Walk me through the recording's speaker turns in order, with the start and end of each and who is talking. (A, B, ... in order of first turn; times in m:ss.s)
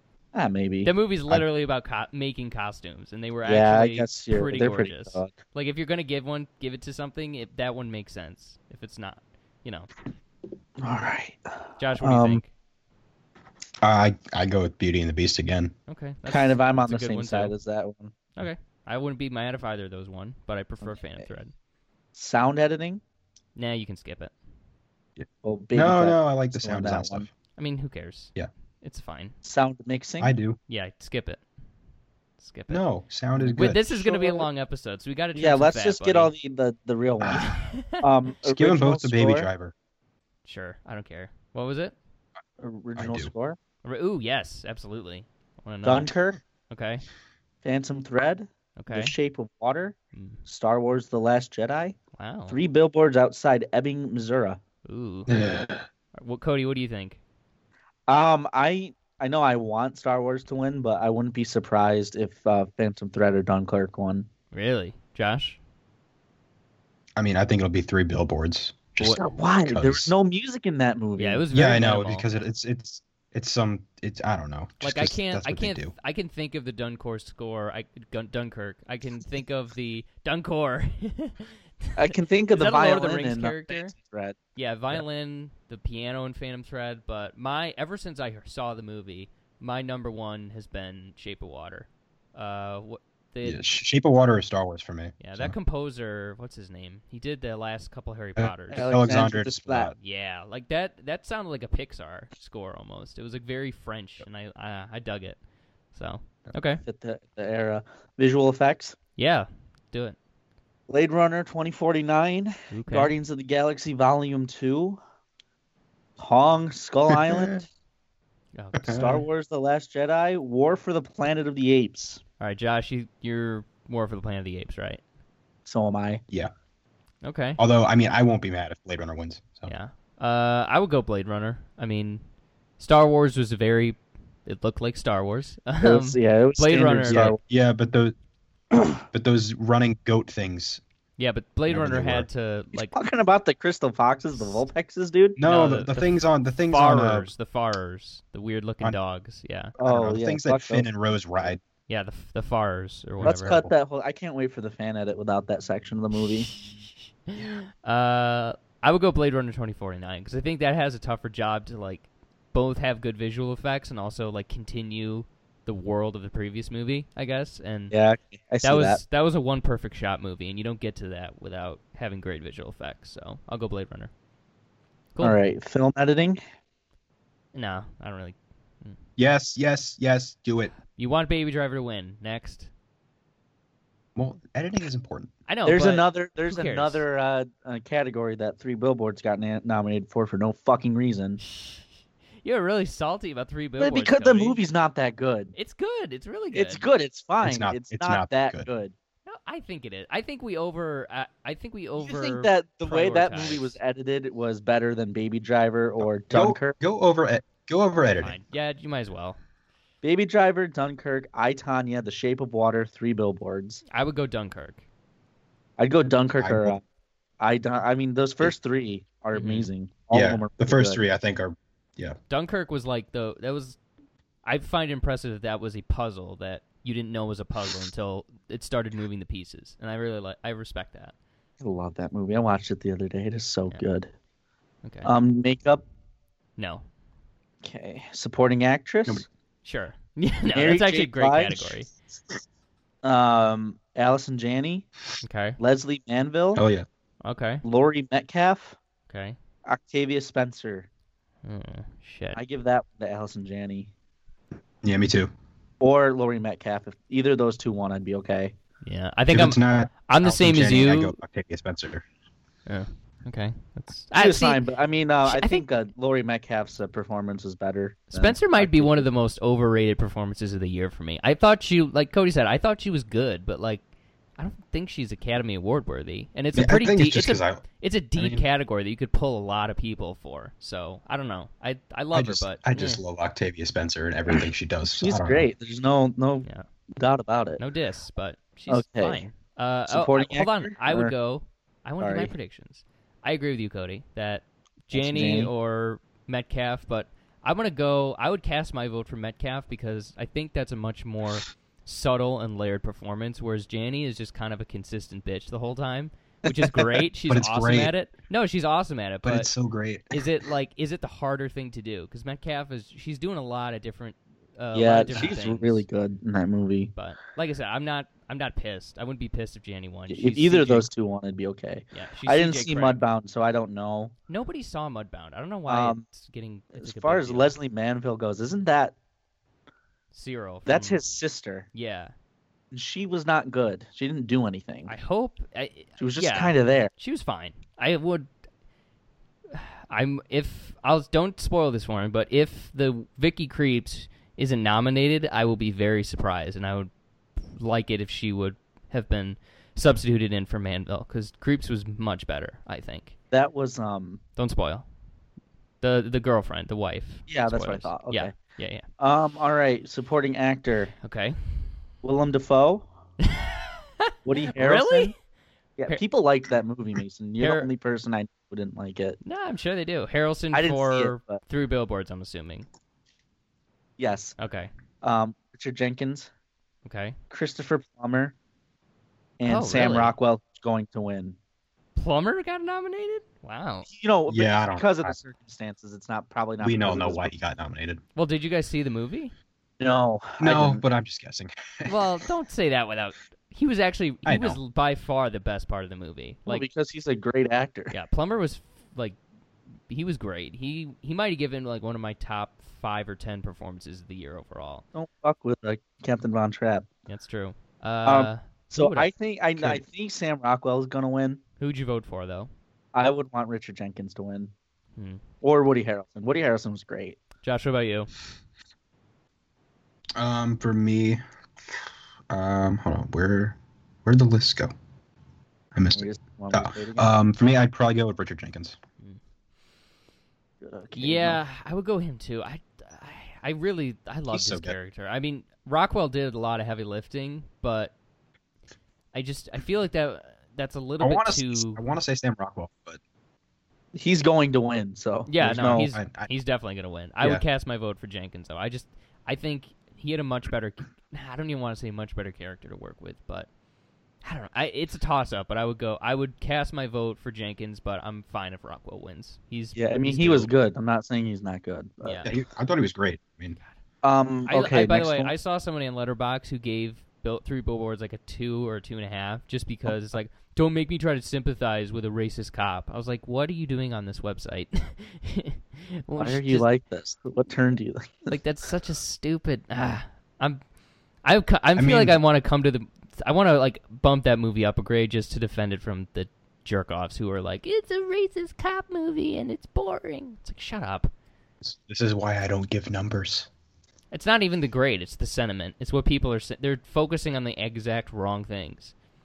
0:00.3-0:00.9 A
0:00.8-0:09.9 B
0:03.4-0:05.3 A
0:10.8-0:12.4 A
0:11.8-0:12.5 B
0:13.8-0:15.7 C
0:15.9-0:17.5 B
0:16.3-0:18.1 A
0:18.4-0:21.5 B
0:20.8-0:21.3 A
0:22.1-0:23.0 A
0:23.6-0:24.3 B
0:25.2-0:27.3 C
0:25.4-0:27.3 A
0:27.6-0:29.3 B
0:29.4-0:30.3 A
0:30.2-0:30.6 C
0:30.7-0:31.4 B
0:32.4-0:32.8 B
0:32.7-0:33.8 C
0:33.4-0:36.3 B
0:33.9-0:34.5 A
0:35.3-0:39.5 A
0:37.2-0:37.4 C
0:37.3-0:38.0 B
0:38.4-0:39.7 C
0:40.4-0:41.9 B
0:42.6-0:43.6 A
0:43.0-0:43.3 C
0:43.8-0:46.1 B
0:45.8-0:46.4 A
0:46.7-0:47.0 B
0:47.6-0:52.0 A
0:48.8-0:49.1 B
0:50.1-0:50.4 B
0:52.2-0:52.6 B
0:52.5-0:54.6 A
0:54.8-0:55.4 B
0:55.3-0:55.8 C
0:56.1-0:57.2 B
0:58.1-1:04.3 A
1:04.5-1:05.6 B
1:07.2-1:10.1 C
1:09.1-1:11.4 A
1:11.2-1:12.3 B
1:11.5-1:15.9 C
1:14.8-1:23.9 B
1:22.0-1:24.4 A
1:24.5-1:33.6 B
1:33.4-1:35.5 C
1:35.2-1:39.0 B
1:38.4-1:39.9 C
1:38.7-1:39.9 A
1:40.0-1:45.4 B
1:45.9-1:46.8 B
1:46.8-1:49.0 A
1:49.2-1:50.2 B
1:50.9-1:55.0 A
1:52.7-1:53.1 B
1:56.2-1:57.6 A
1:57.2-1:57.5 C
1:58.5-1:59.2 B
1:58.8-1:59.1 C
1:58.9-2:02.2 A
2:02.4-2:05.0 B
2:05.6-2:06.2 A
2:07.2-2:07.6 B
2:07.6-2:09.7 C
2:09.6-2:12.2 B
2:12.8-2:17.4 B
2:15.8-2:17.4 A
2:17.1-2:18.1 C
2:18.7-2:19.0 A
2:19.1-2:20.8 C
2:21.2-2:23.0 B
2:21.7-2:22.3 C
2:22.9-2:25.4 A
2:25.4-2:27.3 C
2:25.4-2:29.7 B
2:29.8-2:30.9 A
2:29.8-2:31.6 C
2:31.9-2:33.6 B
2:33.2-2:33.7 C
2:33.2-2:36.5 A
2:36.5-2:48.0 B
2:47.9-2:49.0 A
2:48.6-2:54.1 B
2:55.2-2:56.4 A
2:57.5-2:59.0 B
2:59.2-3:00.7 C
3:00.9-3:02.7 B
3:04.2-3:05.3 C
3:05.5-3:07.0 B
3:05.6-3:11.4 A
3:11.4-3:11.8 B
3:12.4-3:14.6 B
3:13.8-3:15.5 A
3:15.5-3:16.8 B
3:16.5-3:18.9 A
3:17.4-3:18.7 C
3:19.2-3:23.8 B
3:22.0-3:26.8 A
3:26.0-3:28.4 C
3:28.2-3:29.4 B
3:30.0-3:33.8 A
3:33.9-3:34.8 B
3:35.8-3:36.8 A
3:36.4-3:36.7 C
3:37.4-3:41.0 A
3:39.3-3:39.7 B
3:40.1-3:42.2 C
3:42.3-3:43.8 B
3:44.4-3:51.1 B
3:51.6-3:54.1 A
3:54.8-3:55.1 B
3:55.0-3:55.8 A
3:56.6-3:56.8 B
3:57.6-3:59.2 A
3:59.6-4:01.9 B
4:00.5-4:01.8 A
4:03.0-4:04.8 A
4:05.2-4:05.6 B
4:05.6-4:06.6 A
4:06.5-4:06.8 C
4:07.2-4:07.6 B
4:07.6-4:08.8 A
4:09.1-4:09.4 B
4:09.6-4:10.9 A
4:11.4-4:12.4 B
4:12.3-4:13.9 A
4:14.8-4:15.3 C
4:15.8-4:18.5 A
4:18.8-4:21.1 B
4:19.3-4:22.0 C
4:22.6-4:24.6 B
4:24.2-4:29.1 A
4:25.2-4:25.6 B
4:28.1-4:33.8 B
4:34.4-4:43.0 B
4:36.5-4:37.6 C
4:38.2-4:38.4 C
4:42.1-4:45.5 C
4:45.0-4:47.6 A
4:47.6-5:09.5 B
4:48.7-4:49.2 A
4:49.9-4:51.1 A
4:52.0-4:52.3 A
4:54.9-4:55.5 A
5:07.3-5:07.9 C
5:09.2-5:10.2 C
5:10.1-5:15.8 B
5:14.7-5:16.9 A
5:16.9-5:20.9 B
5:20.1-5:24.1 A
5:21.9-5:23.0 B
5:24.3-5:27.5 B
5:25.7-5:26.0 A
5:26.7-5:28.9 A
5:30.1-5:31.1 B
5:30.6-5:31.7 A
5:31.7-5:32.1 B
5:32.7-5:34.9 A
5:34.9-5:38.3 B
5:36.0-5:36.9 A
5:39.5-5:46.9 B
5:47.5-5:53.1 B
5:53.3-5:54.2 A
5:54.4-5:54.8 B
5:55.8-5:58.8 B
5:57.3-5:58.3 A
5:59.0-6:00.9 A
6:01.0-6:01.4 B
6:02.0-6:02.9 A
6:03.2-6:05.1 B
6:04.2-6:05.1 A
6:05.8-6:09.2 A
6:07.4-6:07.7 B
6:09.2-6:12.6 B
6:10.5-6:11.4 A
6:14.0-6:14.3 A
6:14.4-6:14.7 B
6:15.0-6:16.3 A
6:16.8-6:17.2 B
6:17.3-6:18.3 A
6:19.4-6:21.4 A
6:19.5-6:20.1 B
6:22.0-6:23.9 B
6:23.9-6:27.3 A
6:24.3-6:25.1 C
6:26.6-6:28.0 C
6:28.2-6:29.3 B
6:29.8-6:30.8 A
6:30.4-6:31.9 C
6:31.8-6:36.6 B
6:34.2-6:34.6 C
6:36.5-6:37.9 A
6:37.9-6:39.2 B
6:39.9-6:44.8 B
6:44.9-6:46.9 A
6:47.1-6:49.8 B
6:48.0-6:51.4 A
6:51.6-6:52.5 B
6:52.9-6:54.5 A
6:55.4-6:57.2 A
6:57.4-6:58.1 B
7:00.2-7:04.7 C
7:05.7-7:08.8 C
7:05.9-7:07.1 A
7:10.6-7:11.4 A
7:11.0-7:17.9 B
7:14.3-7:14.8 C
7:19.1-7:21.8 B
7:21.0-7:23.0 C
7:23.9-7:25.9 A
7:25.3-7:33.5 B
7:25.9-7:26.3 C
7:34.2-7:40.5 B
7:39.7-7:42.3 A
7:42.0-7:42.3 B
7:42.2-7:43.6 C
7:44.0-7:45.3 A
7:44.5-7:56.7 B
7:56.2-7:58.3 A
7:58.3-8:00.6 B
8:01.2-8:11.1 B
8:01.8-8:02.2 C
8:11.6-8:13.5 C
8:14.1-8:18.9 B